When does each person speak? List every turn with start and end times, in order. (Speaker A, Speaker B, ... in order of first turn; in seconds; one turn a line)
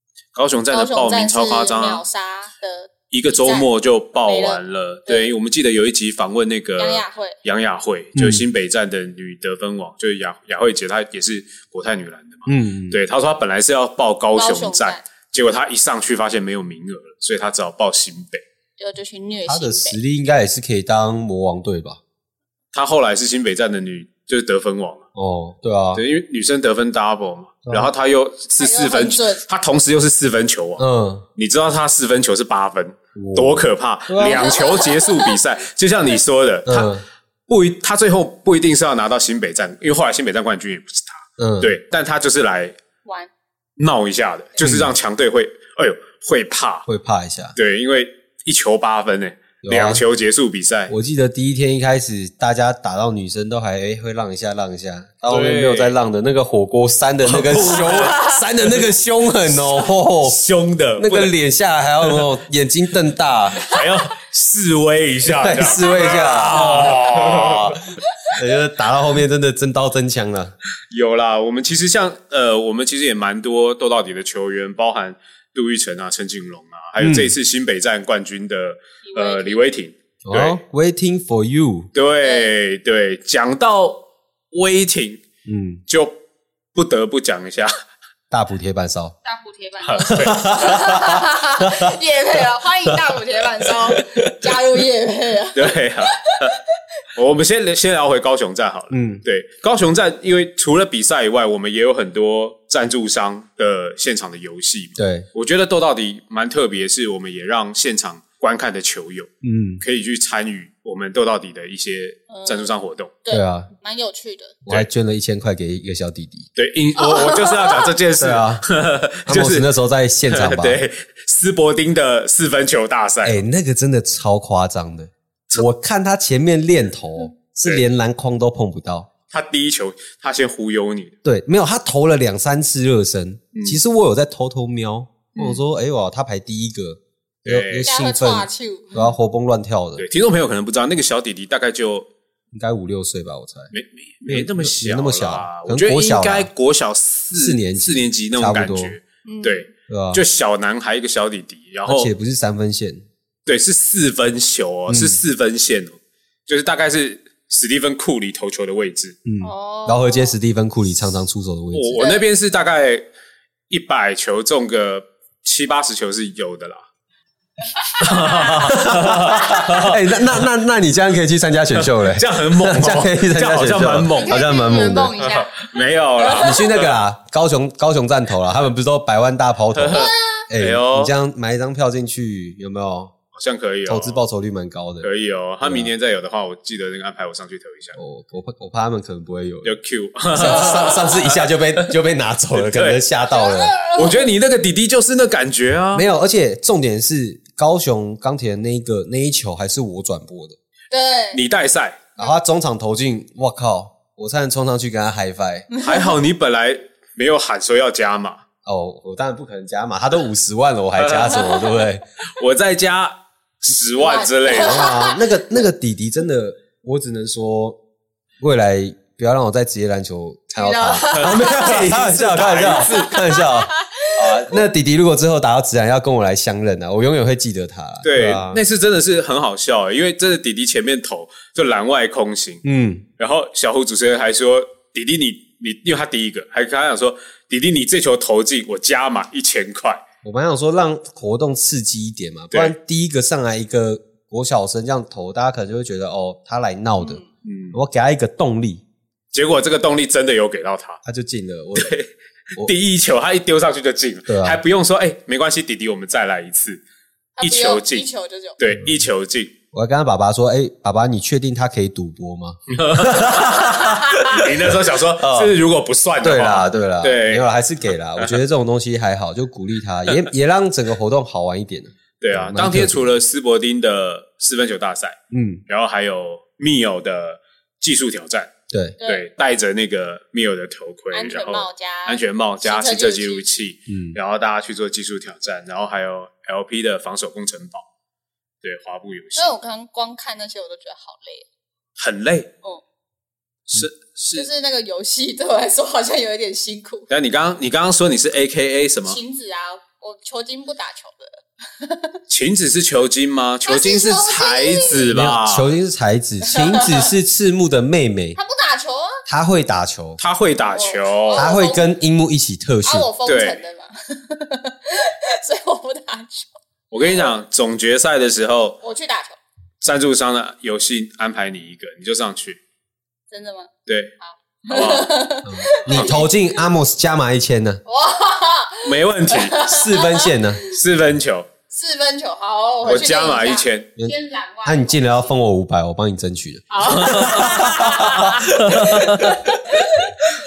Speaker A: 0.3-2.0
Speaker B: 0.7-3.7
Speaker A: 3.1-18.4
Speaker B: 4.2-5.3
Speaker B: 6.8-7.4
Speaker C: 8.1-8.4
Speaker C: 12.4-13.0
Speaker B: 14.3-15.0
Speaker B: 18.8-20.0
Speaker C: 19.5-22.0
Speaker A: 22.7-25.1
Speaker C: 25.1-26.0
Speaker A: 25.9-30.9
Speaker C: 27.7-27.9
Speaker B: 28.6-29.4
Speaker C: 30.8-31.2
Speaker A: 31.4-37.0
Speaker C: 33.1-34.6
Speaker B: 34.2-35.4
Speaker C: 36.6-37.0
Speaker A: 37.5-42.8
Speaker C: 41.4-41.8
Speaker B: 43.0-43.3
Speaker A: 43.8-46.9
Speaker C: 44.6-44.9
Speaker C: 46.9-47.6
Speaker A: 47.6-50.9
Speaker C: 49.6-50.0
Speaker C: 50.9-60.4
Speaker A: 55.3-56.0
Speaker A: 57.2-58.9
Speaker B: 58.1-58.4
Speaker A: 59.5-61.3
Speaker C: 61.0-63.7
Speaker A: 63.6-67.9
Speaker C: 65.4-70.5
Speaker A: 70.9-80.6
Speaker C: 77.0-77.3
Speaker B: 79.0-79.6
Speaker C: 80.2-81.9
Speaker A: 81.9-85.2
Speaker B: 82.2-82.5
Speaker C: 85.5-85.8
Speaker A: 85.9-86.2
Speaker A: 86.8-87.7
Speaker C: 88.3-89.2
Speaker B: 89.2-96.5
Speaker A: 89.8-90.8
Speaker C: 90.1-92.0
Speaker A: 95.5-96.6
Speaker A: 97.1-113.1
Speaker C: 98.9-99.2
Speaker C: 105.0-105.3
Speaker C: 109.4-109.8
Speaker B: 112.3-112.7
Speaker B: 113.2-114.5
Speaker C: 113.3-113.7
Speaker C: 114.6-116.5
Speaker A: 116.5-119.7
Speaker B: 117.0-117.9
Speaker C: 118.2-118.6
Speaker C: 119.3-120.8
Speaker A: 120.3-123.4
Speaker C: 123.2-129.1
Speaker A: 129.3-131.2
Speaker C: 131.2-140.0
Speaker A: 133.5-133.8
Speaker A: 135.3-135.6
Speaker A: 137.5-137.9
Speaker B: 137.9-139.0
Speaker A: 140.0-142.1
Speaker C: 142.5-143.7
Speaker A: 143.7-152.1
Speaker C: 144.3-146.5
Speaker C: 147.3-149.0
Speaker B: 149.2-149.7
Speaker C: 149.9-150.2
Speaker C: 151.9-153.1
Speaker A: 153.5-159.2
Speaker C: 154.9-155.2
Speaker C: 159.2-162.0
Speaker B: 159.4-160.4
Speaker A: 161.7-163.1
Speaker B: 162.0-162.2
Speaker A: 163.7-166.8
Speaker B: 167.9-169.7
Speaker A: 168.0-170.4
Speaker C: 168.3-175.2
Speaker A: 171.7-174.5
Speaker B: 174.1-176.5
Speaker A: 175.2-177.0
Speaker C: 176.3-183.1
Speaker A: 179.7-181.1
Speaker B: 179.9-180.5
Speaker A: 183.3-184.2
Speaker C: 183.9-185.1
Speaker A: 185.0-188.0
Speaker C: 185.6-185.9
Speaker C: 187.9-189.8
Speaker A: 189.6-191.5
Speaker C: 190.3-193.7
Speaker B: 190.4-191.1
Speaker A: 192.5-193.0
Speaker B: 193.3-194.3
Speaker A: 194.0-196.1
Speaker C: 195.9-200.6
Speaker B: 200.9-201.4
Speaker A: 201.3-202.1
Speaker C: 202.2-205.7
Speaker B: 205.7-206.1
Speaker A: 205.8-208.4
Speaker C: 208.6-212.0
Speaker A: 211.0-215.0
Speaker B: 214.0-215.4
Speaker C: 214.5-217.8
Speaker C: 218.4-228.6
Speaker B: 220.6-224.2
Speaker A: 221.1-223.2
Speaker A: 228.0-232.6
Speaker C: 232.6-233.1
Speaker A: 233.2-240.0
Speaker C: 240.2-248.8
Speaker B: 247.0-247.3
Speaker A: 247.4-247.8
Speaker A: 249.3-251.0
Speaker C: 251.0-252.0
Speaker A: 251.8-256.8
Speaker C: 254.3-254.6
Speaker B: 257.4-258.6
Speaker A: 257.4-259.5
Speaker C: 259.7-265.5
Speaker A: 262.7-267.5
Speaker C: 266.2-273.1
Speaker A: 272.2-275.2
Speaker C: 275.3-275.6
Speaker A: 275.7-278.5
Speaker C: 278.7-279.0
Speaker B: 279.0-279.3
Speaker A: 279.0-287.9
Speaker B: 281.1-283.5
Speaker C: 283.9-284.2
Speaker A: 288.6-289.5
Speaker B: 289.4-291.5
Speaker A: 292.0-292.5
Speaker A: 293.7-294.5
Speaker B: 294.4-297.1
Speaker A: 297.1-299.2
Speaker B: 299.1-302.2
Speaker A: 302.3-305.7
Speaker B: 303.7-305.1
Speaker C: 305.1-308.4
Speaker B: 306.5-307.0
Speaker B: 308.4-309.2
Speaker C: 309.2-310.2
Speaker A: 310.2-311.5
Speaker B: 310.7-311.9
Speaker C: 311.3-313.1
Speaker B: 312.9-316.6
Speaker A: 313.2-313.6
Speaker A: 316.9-318.8
Speaker B: 318.8-319.4
Speaker A: 319.8-322.6
Speaker B: 323.3-323.7
Speaker A: 323.9-324.1
Speaker B: 324.2-326.3
Speaker A: 324.7-325.1
Speaker C: 325.5-327.8
Speaker A: 325.9-326.2
Speaker B: 327.9-330.4
Speaker A: 328.8-329.6
Speaker C: 329.7-330.6
Speaker A: 330.7-331.5
Speaker B: 331.7-335.3
Speaker A: 332.8-333.9
Speaker C: 334.0-339.4
Speaker B: 336.7-340.1
Speaker A: 336.8-339.7